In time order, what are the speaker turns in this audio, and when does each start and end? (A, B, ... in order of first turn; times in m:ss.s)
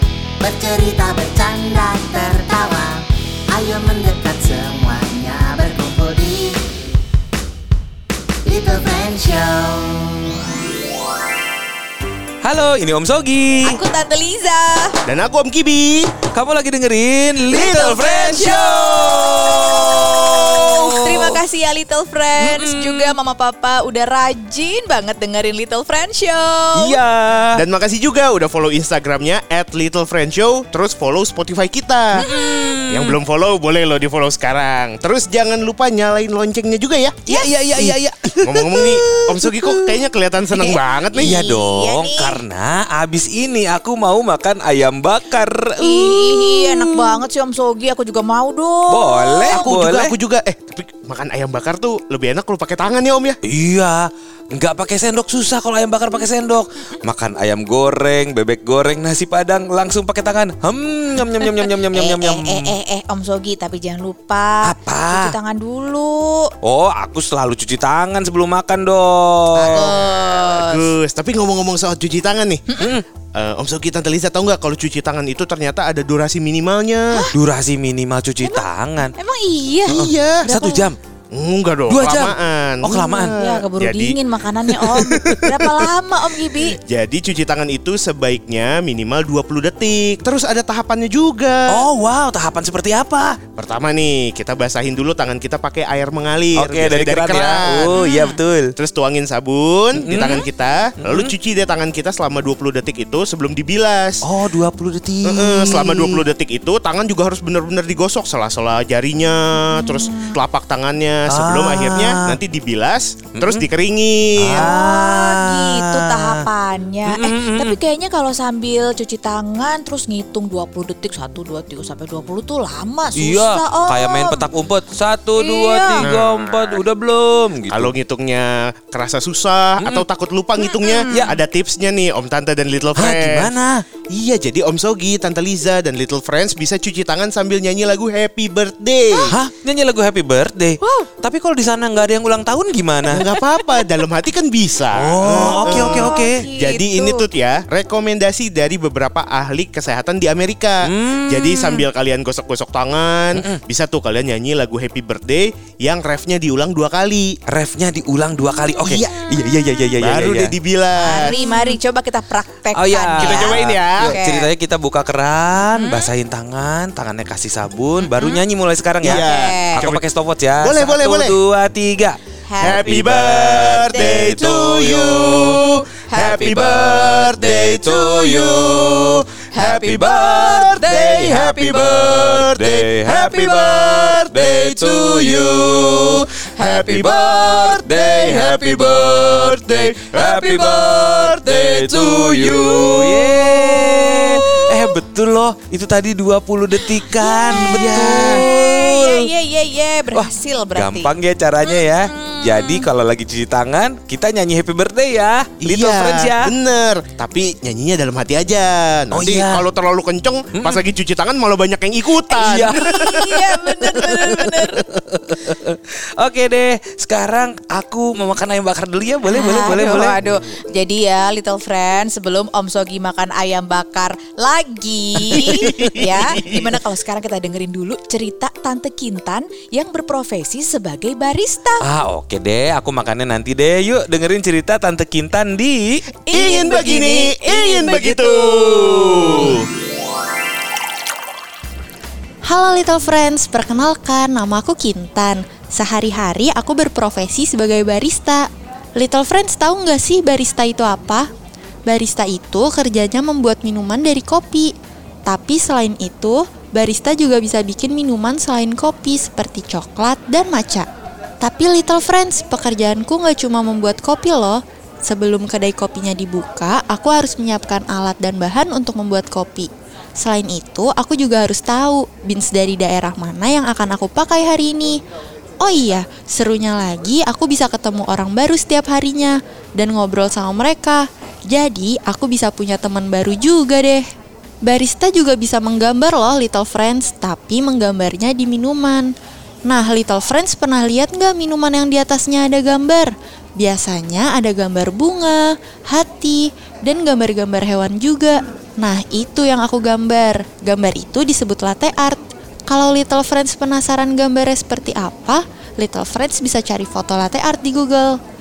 0:00.4-0:03.0 A
0:03.6-0:05.0 A
0:05.6-0:06.6 A
0:08.4-0:10.3 A
0:12.4-0:13.8 B
0:13.6-0:15.0 C
0:15.0-0:16.1 D
0:16.2-0:21.4 B
0:17.5-0:27.0 C
0:22.4-0:23.2 B
0:26.7-0:27.6 B
0:27.6-0:32.2 D
0:32.1-0:33.2 B
0:32.9-0:41.4 D
0:37.3-0:40.0 B
0:40.6-0:42.4 C
0:41.0-0:47.2 B
0:45.8-0:49.7 C
0:48.9-0:50.2 B
0:49.5-0:53.4 D
0:53.4-1:02.7 B
1:01.4-1:06.5 C
1:04.6-1:05.3 B
1:06.6-1:09.9 B
1:09.6-1:10.9 C
1:09.6-1:12.6 D
1:12.8-1:13.0 B
1:13.3-1:17.3 D
1:17.3-1:19.1 B
1:18.4-1:20.8 C
1:19.8-1:20.5 D
1:20.0-1:21.0 B
1:21.3-1:24.2 D
1:21.9-1:23.4 B
1:23.4-1:26.8 C
1:24.7-1:25.9 D
1:26.6-1:31.8 D
1:31.7-1:33.4 B
1:33.6-1:37.9 D
1:36.5-1:38.7 B
1:37.9-1:38.4 C
1:38.8-1:44.2 D
1:40.0-1:40.4 B
1:41.0-1:41.3 B
1:44.2-1:46.2 B
1:45.2-1:54.7 D
1:49.6-1:50.2 C
1:51.3-1:52.4 B
1:53.4-1:53.7 B
1:54.4-1:56.5 B
1:54.6-2:04.5 C
1:57.1-1:57.8 B
2:03.1-2:07.9 B
2:05.4-2:06.1 C
2:06.0-2:06.7 D
2:07.7-2:13.5 D
2:09.8-2:10.0 B
2:10.6-2:11.3 C
2:11.1-2:11.4 B
2:13.0-2:13.9 B
2:14.1-2:19.4 D
2:19.3-2:23.2 B
2:23.1-2:37.4 D
2:24.9-2:26.5 B
2:25.4-2:27.2 C
2:30.8-2:31.9 B
2:33.3-2:33.6 B
2:37.5-2:40.5 B
2:38.8-2:39.4 D
2:40.0-2:41.6 D
2:41.0-2:44.5 C
2:42.7-2:52.2 B
2:43.2-2:44.2 D
2:45.7-2:46.1 C
2:48.0-2:48.4 C
2:49.0-2:50.0 D
2:49.0-2:49.8 C
2:50.6-2:51.4 D
2:52.4-2:53.0 C
2:52.6-3:12.9 D
2:52.8-2:55.6 B
2:53.8-2:54.6 C
2:55.5-2:56.9 C
2:56.2-3:19.3 B
2:57.9-2:58.8 C
2:59.5-3:01.8 C
3:03.1-3:04.0 C
3:06.6-3:07.3 C
3:08.4-3:08.8 C
3:11.5-3:14.9 C
3:16.9-3:22.9 C
3:17.5-3:18.5 D
3:20.1-3:26.5 B
3:25.6-3:33.0 D
3:29.1-3:29.6 B
3:30.5-3:30.8 B
3:32.3-3:40.4 B
3:32.7-3:34.8 C
3:39.2-3:51.8 C
3:45.5-3:46.4 D
3:51.8-3:56.0 B
3:56.2-3:59.5 C
3:56.3-3:59.7 D
4:02.4-4:11.3 E
4:11.8-4:14.7 E
4:15.3-4:20.8 E
4:21.4-4:35.0 E
4:35.6-4:44.0 E
4:44.6-4:49.1 E
4:49.7-5:08.2 E